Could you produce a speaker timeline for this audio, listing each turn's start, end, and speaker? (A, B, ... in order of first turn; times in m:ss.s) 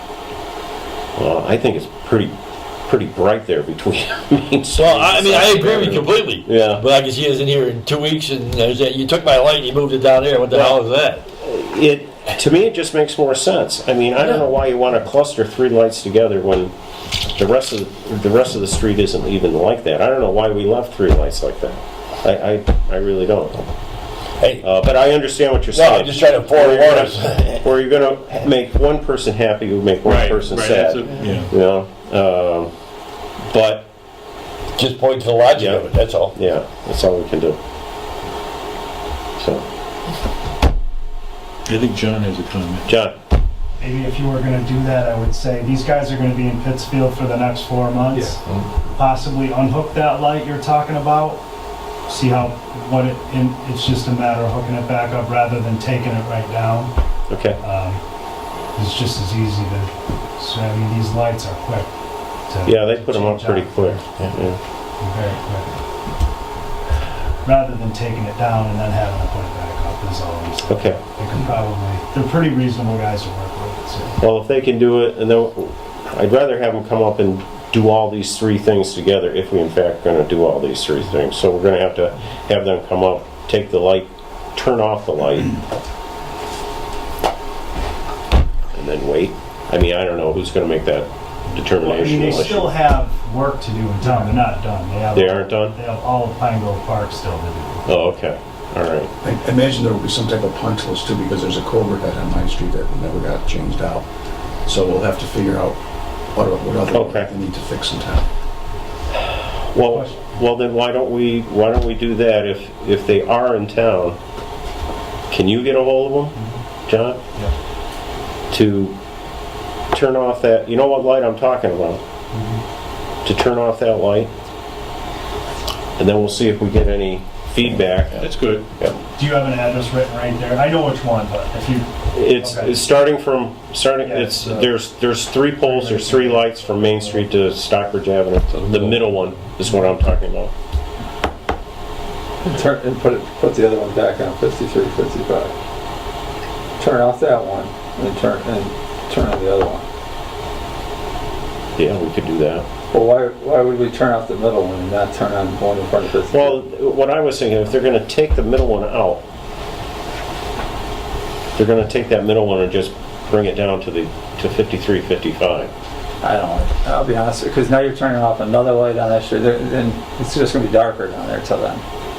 0:01.2-0:02.3 A
0:02.9-0:06.8 A
0:04.7-0:11.2 B
0:10.5-0:16.7 A
0:17.4-0:23.6 A
0:24.4-0:24.7 B
0:24.6-0:32.7 A
0:25.7-0:27.6 B
0:30.0-0:31.5 C
0:33.5-0:33.9 A
0:34.8-0:36.3 B
0:35.5-0:37.6 A
0:39.4-0:39.6 A
0:41.7-0:42.9 C
0:42.9-0:43.2 A
0:43.8-0:51.4 D
0:52.1-0:56.9 D
0:57.3-0:57.6 A
0:57.6-0:58.0 D
0:58.8-1:01.9 D
1:02.5-1:04.3 D
1:02.6-1:04.6 A
1:05.0-1:05.7 D
1:07.4-1:14.2 D
1:10.7-1:11.0 A
1:14.2-1:25.6 A
1:28.7-1:32.7 A
1:31.8-1:37.9 D
1:35.1-1:35.8 A
1:37.9-1:39.1 A
1:39.2-1:44.0 E
1:44.6-1:45.8 E
1:46.3-1:48.2 E
1:46.9-1:47.3 A
1:49.2-1:54.2 A
1:49.8-1:50.3 D
1:55.3-1:56.4 A
1:56.9-1:57.2 A
1:58.5-1:59.0 A
1:59.9-2:02.0 A
2:02.3-2:02.6 D
2:03.2-2:04.3 A
2:06.0-2:09.0 A
2:08.2-2:08.7 C
2:09.2-2:12.8 D
2:12.1-2:20.5 A
2:14.0-2:14.7 D
2:15.6-2:17.2 D
2:22.4-2:25.5 F
2:26.8-2:29.8 F
2:31.8-2:32.6 A
2:32.9-2:36.6 F
2:36.3-2:39.2 A
2:41.6-2:45.7 A
2:46.2-2:51.8 F